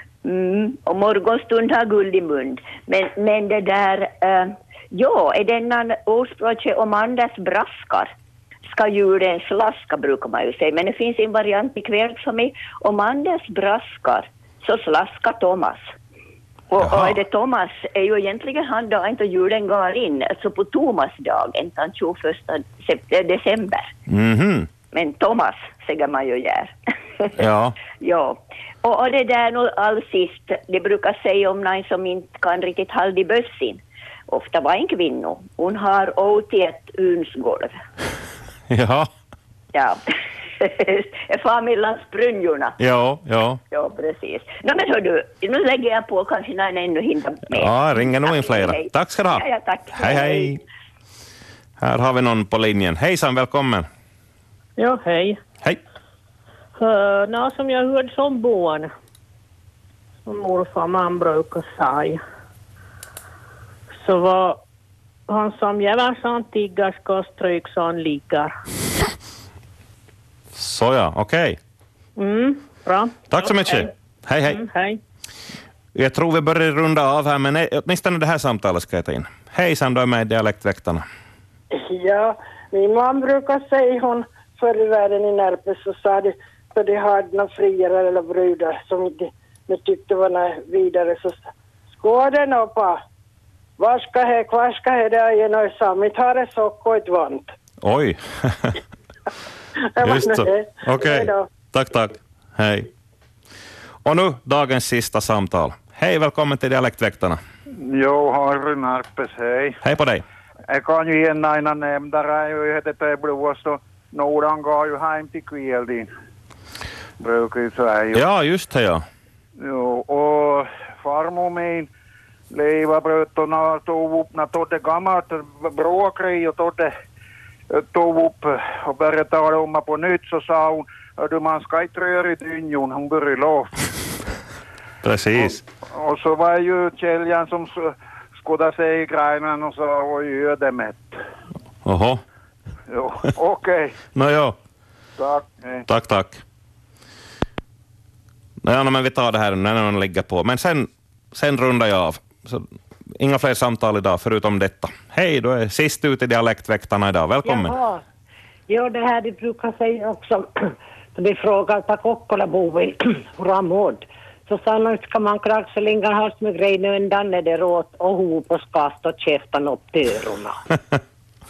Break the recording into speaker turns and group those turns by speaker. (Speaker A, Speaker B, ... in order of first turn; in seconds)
Speaker A: 0.2-8.1, 8.7-15.9, 16.7-23.9, 24.9-27.4, 28.0-37.8, 39.7-40.0, 40.6-42.8, 43.7-50.6
Speaker B: 16.8-17.2, 24.1-24.7, 27.4-27.8, 38.7-39.1, 42.8-43.6, 47.5-50.6, 51.8-53.9, 70.5-71.6, 73.3-74.6, 76.0-81.1, 97.8-98.8, 100.0-102.9, 104.0-107.4, 109.8-110.2, 118.1-119.0, 135.0-135.6, 141.8-142.2, 144.2-144.6, 145.9-146.4, 148.6-152.7, 153.2-157.8, 170.7-171.0
Speaker C: 54.8-55.4, 56.8-58.9, 60.2-62.2, 63.9-64.6, 65.3-68.6, 72.2-73.9, 74.5-75.0
Speaker D: 81.7-93.0, 93.8-97.5, 100.0-101.5
Speaker E: 107.8-109.8, 110.7-116.1, 117.2-118.2, 119.6-121.9, 122.5-126.9, 127.7-133.8, 135.4-141.2, 142.9-144.0, 145.2-145.8
Speaker F: 157.4-158.0, 158.7-170.6